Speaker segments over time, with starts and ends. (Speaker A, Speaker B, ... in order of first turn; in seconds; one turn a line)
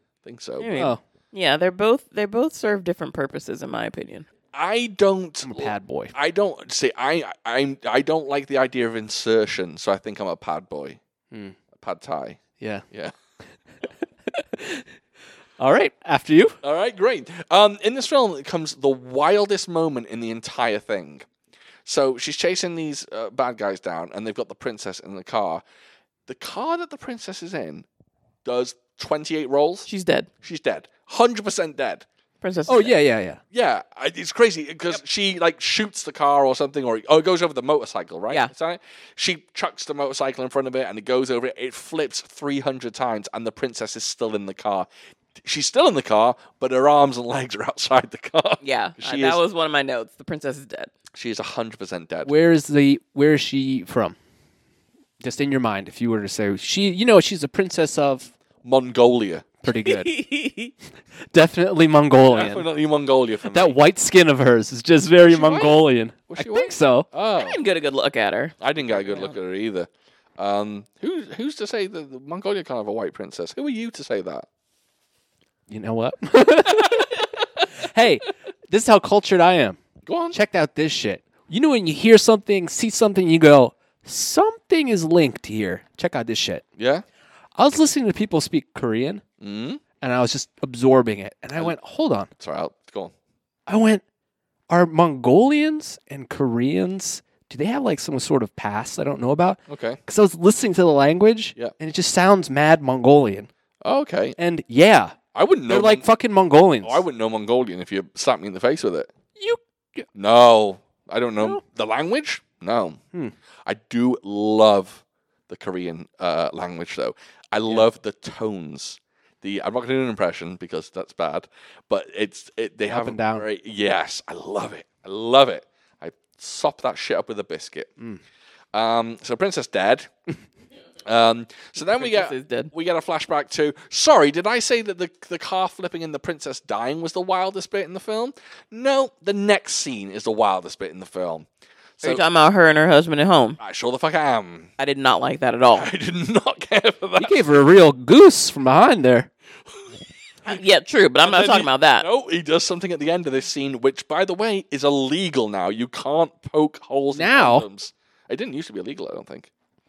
Speaker A: 0.2-0.7
Speaker B: 0.6-4.3
Speaker C: 0.7-1.0
Speaker A: 4.5-11.0
Speaker C: 5.4-6.1
Speaker C: 11.3-11.6
Speaker A: 11.7-13.1
Speaker C: 12.6-12.8
Speaker C: 14.3-14.9
Speaker C: 15.6-16.6
Speaker A: 16.6-21.3
Speaker A: 21.9-25.6
Speaker A: 26.3-27.9
Speaker A: 28.4-29.9
Speaker B: 29.9-30.3
Speaker A: 30.4-32.0
Speaker B: 32.4-33.0
Speaker C: 32.7-33.4
Speaker A: 33.5-49.4
Speaker B: 48.6-50.9
Speaker A: 51.1-52.3
Speaker C: 52.2-54.2
Speaker C: 55.2-58.3
Speaker A: 58.6-59.5
Speaker C: 59.6-60.2
Speaker B: 59.7-60.7
Speaker C: 61.3-62.7
Speaker A: 62.3-63.8
Speaker C: 63.5-67.1
Speaker A: 65.3-67.6
Speaker B: 67.4-68.5
Speaker A: 68.6-74.5
Speaker C: 68.9-69.3
Speaker C: 75.7-79.8
Speaker A: 76.8-77.0
Speaker A: 80.0-80.4
Speaker C: 80.3-86.6
Speaker A: 86.8-87.0
Speaker C: 87.5-89.2
Speaker A: 89.4-89.8
Speaker C: 90.0-92.3
Speaker A: 92.4-93.1
Speaker C: 93.7-94.0
Speaker C: 94.7-103.5
Speaker A: 99.7-100.0
Speaker A: 103.8-104.4
Speaker C: 104.4-105.2
Speaker A: 105.3-106.0
Speaker C: 105.7-107.0
Speaker A: 106.8-109.1
Speaker C: 109.4-110.1
Speaker A: 110.1-113.0
Speaker A: 113.6-127.9
Speaker C: 122.9-123.5
Speaker A: 128.7-130.1
Speaker A: 131.1-141.5
Speaker B: 131.8-132.7
Speaker A: 142.0-142.2
Speaker B: 142.0-143.6
Speaker A: 143.6-144.7
Speaker B: 144.8-145.9
Speaker A: 145.7-147.4
Speaker C: 147.2-149.3
Speaker B: 150.4-152.1
Speaker A: 151.2-159.5
Speaker C: 157.1-157.7